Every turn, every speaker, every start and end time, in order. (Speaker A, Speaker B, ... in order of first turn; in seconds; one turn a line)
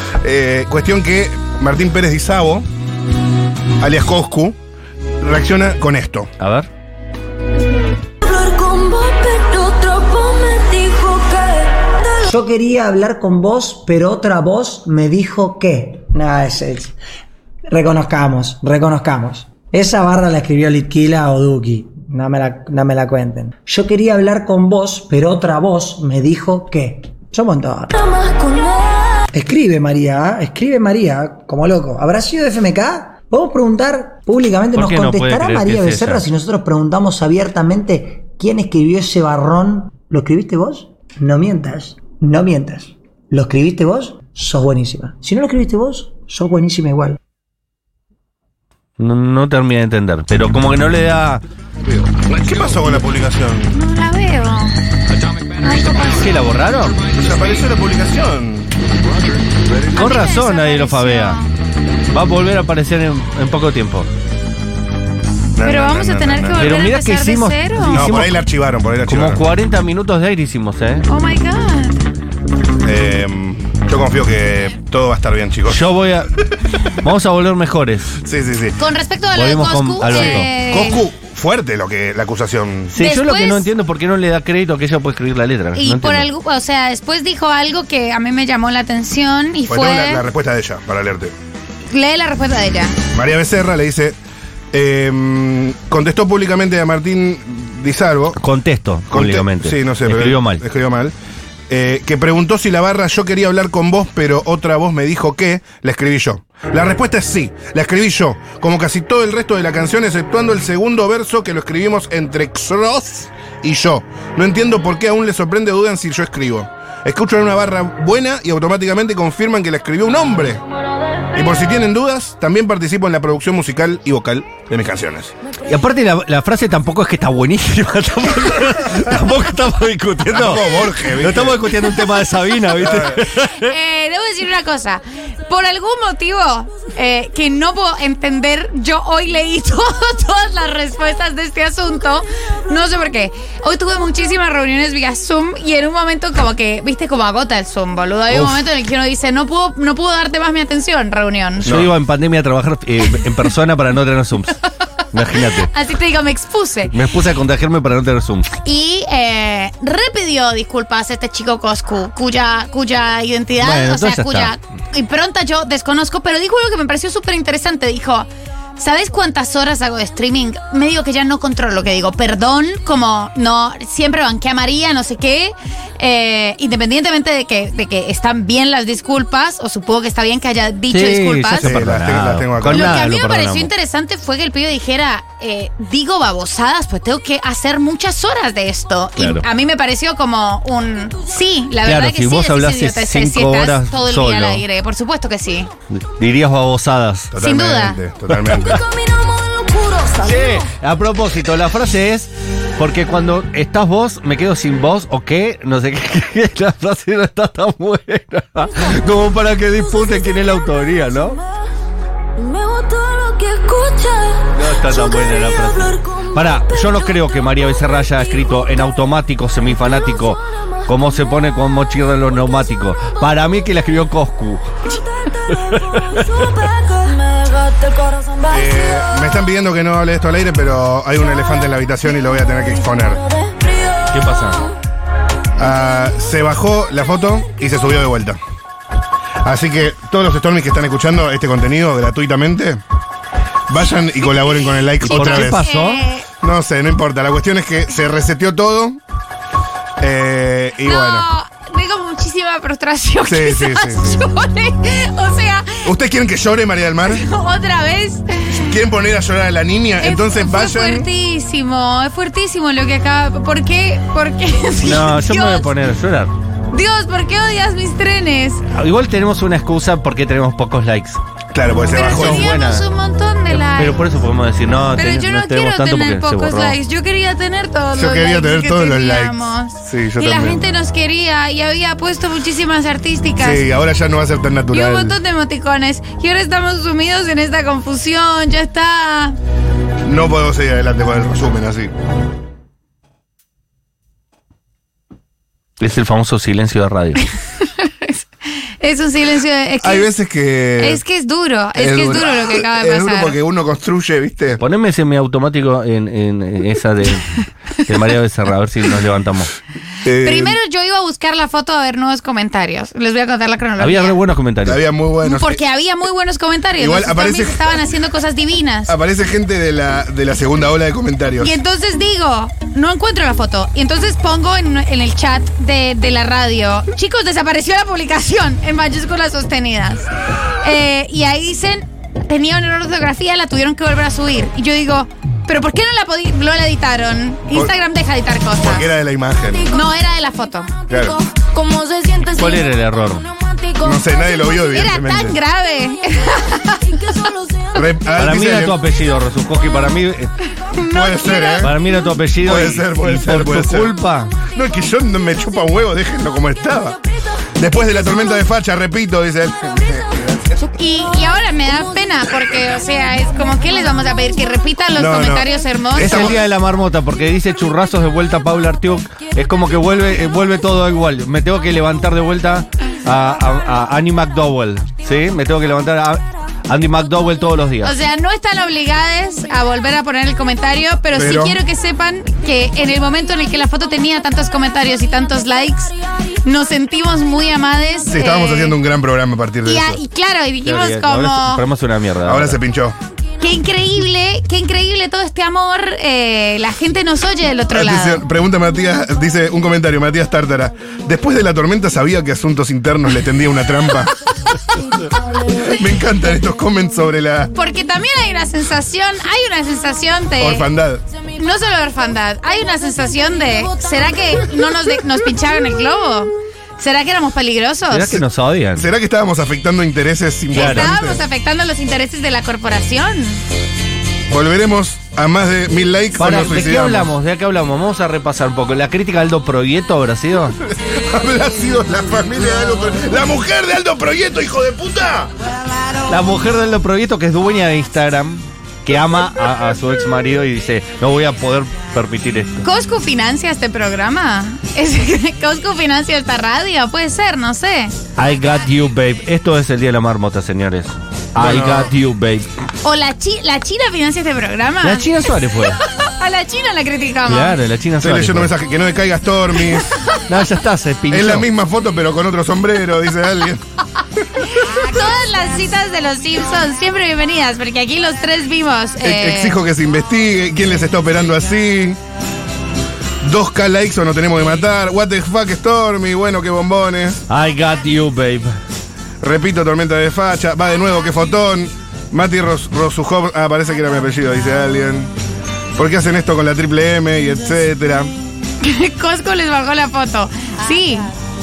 Speaker A: 0.2-2.7
Speaker A: 3.8-4.6
Speaker A: 5.2-6.3
Speaker B: 6.4-6.7
Speaker C: 8.2-12.2
Speaker D: 12.3-16.9
Speaker D: 17.7-27.9
Speaker C: 27.9-29.2
Speaker D: 29.3-47.2
Speaker B: 34.7-36.2
Speaker B: 49.0-51.4
Speaker A: 51.8-53.8
Speaker E: 53.7-54.7
Speaker E: 55.6-56.2
Speaker B: 55.9-57.1
Speaker A: 57.1-58.7
Speaker A: 59.5-59.9
Speaker B: 60.0-61.4
Speaker E: 60.0-61.5
Speaker B: 62.1-64.1
Speaker A: 65.6-66.8
Speaker E: 65.6-68.0
Speaker B: 66.6-68.4
Speaker A: 67.8-69.4
Speaker B: 69.0-71.0
Speaker E: 71.1-72.0
Speaker A: 72.8-75.8
Speaker B: 75.7-76.3
Speaker B: 76.9-78.1
Speaker A: 78.2-78.8
Speaker E: 78.8-81.0
Speaker B: 79.3-80.5
Speaker A: 80.1-82.9
Speaker B: 82.9-86.3
Speaker E: 83.0-83.7
Speaker E: 85.8-90.2
Speaker A: 89.7-91.3
Speaker E: 91.9-92.9
Speaker A: 93.1-94.2
Speaker A: 94.7-98.4
Speaker B: 98.4-100.6
Speaker A: 99.1-101.1
Speaker A: 101.7-120.6
Speaker A: 121.3-125.3
Speaker B: 125.7-133.7
Speaker A: 130.3-131.7
Speaker A: 132.7-133.2
Speaker E: 133.3-151.8
Speaker B: 148.3-148.6
Speaker A: 151.6-151.9
Speaker B: 151.6-154.6
Speaker B: 155.1-155.7
Speaker E: 155.6-156.9
Speaker B: 156.9-158.5
Speaker E: 158.6-181.7
Speaker B: 163.6-164.5
Speaker B: 180.9-183.7
Speaker A: 181.6-183.1
Speaker E: 182.7-195.7
Speaker B: 189.2-189.4
Speaker B: 191.8-194.6
Speaker B: 195.9-197.3
Speaker A: 197.3-198.8
Speaker E: 197.4-198.0
Speaker B: 198.3-198.8
Speaker C: 198.7-200.7
Speaker B: 200.2-211.4
Speaker C: 209.8-210.2
Speaker C: 212.4-217.2
Speaker B: 214.5-224.7
Speaker C: 218.1-218.5
Speaker C: 219.8-220.4
Speaker C: 225.2-229.5
Speaker B: 225.6-226.2
Speaker A: 228.5-233.2
Speaker C: 232.4-234.6
Speaker B: 234.1-234.6
Speaker A: 235.6-238.4
Speaker A: 239.4-242.8
Speaker A: 243.7-245.7
Speaker E: 245.0-246.2
Speaker B: 245.0-246.0
Speaker A: 246.4-249.0
Speaker A: 250.0-251.3
Speaker E: 250.8-255.9
Speaker A: 253.2-254.2
Speaker A: 255.8-257.3
Speaker E: 257.1-258.8
Speaker A: 258.6-261.1
Speaker E: 260.0-265.7
Speaker B: 264.8-266.3
Speaker E: 266.7-268.6
Speaker B: 268.7-271.2
Speaker A: 271.5-272.5
Speaker E: 271.9-274.0
Speaker B: 272.1-272.8
Speaker B: 273.5-276.8
Speaker E: 274.9-283.6
Speaker A: 277.9-280.6
Speaker A: 283.4-285.2
Speaker E: 284.7-289.4
Speaker A: 290.0-291.9
Speaker B: 295.8-297.2
Speaker E: 297.6-298.2
Speaker E: 298.8-300.1
Speaker A: 299.8-301.0
Speaker E: 300.8-303.4
Speaker A: 301.7-304.6
Speaker B: 304.6-309.5
Speaker A: 310.0-310.6
Speaker E: 310.2-314.2
Speaker B: 313.8-314.8
Speaker A: 314.6-315.6
Speaker E: 315.2-318.9
Speaker A: 316.8-317.8
Speaker A: 318.9-321.6
Speaker E: 321.4-338.9
Speaker A: 338.6-339.7
Speaker C: 339.5-340.0
Speaker E: 339.7-340.9
Speaker A: 340.9-341.1
Speaker C: 340.9-344.5
Speaker B: 342.4-343.2
Speaker A: 343.8-345.4
Speaker E: 344.6-347.0
Speaker C: 346.8-347.9
Speaker A: 347.7-348.8
Speaker B: 348.2-350.3
Speaker E: 350.6-351.7
Speaker A: 350.8-351.8
Speaker B: 351.6-354.4
Speaker A: 352.4-357.0
Speaker A: 357.5-360.6
Speaker C: 357.9-358.2
Speaker E: 360.8-366.4
Speaker A: 364.9-366.4
Speaker B: 365.9-377.9
Speaker E: 377.8-388.8
Speaker A: 381.1-381.6
Speaker A: 388.1-390.0
Speaker E: 389.6-391.6
Speaker B: 390.6-392.6
Speaker A: 392.2-393.0
Speaker E: 393.4-398.2
Speaker A: 397.7-404.1
Speaker A: 405.6-407.5
Speaker E: 407.5-410.7
Speaker A: 410.4-411.0
Speaker E: 411.3-418.2
Speaker B: 417.9-418.9
Speaker A: 418.8-421.2
Speaker E: 420.5-423.4
Speaker B: 420.5-420.9
Speaker A: 424.3-427.1
Speaker B: 426.2-430.6
Speaker A: 430.6-435.3
Speaker B: 436.1-442.6
Speaker E: 442.6-447.9
Speaker B: 448.2-452.4
Speaker A: 451.4-451.9
Speaker E: 452.8-455.1
Speaker B: 454.8-455.8
Speaker E: 455.9-457.6
Speaker B: 457.3-458.5
Speaker A: 458.0-460.0
Speaker B: 460.3-461.5
Speaker A: 461.1-463.6
Speaker E: 464.4-469.6
Speaker A: 469.0-472.0
Speaker A: 473.2-477.2
Speaker B: 477.3-478.5
Speaker A: 479.2-485.1
Speaker A: 485.8-488.1
Speaker E: 488.6-491.1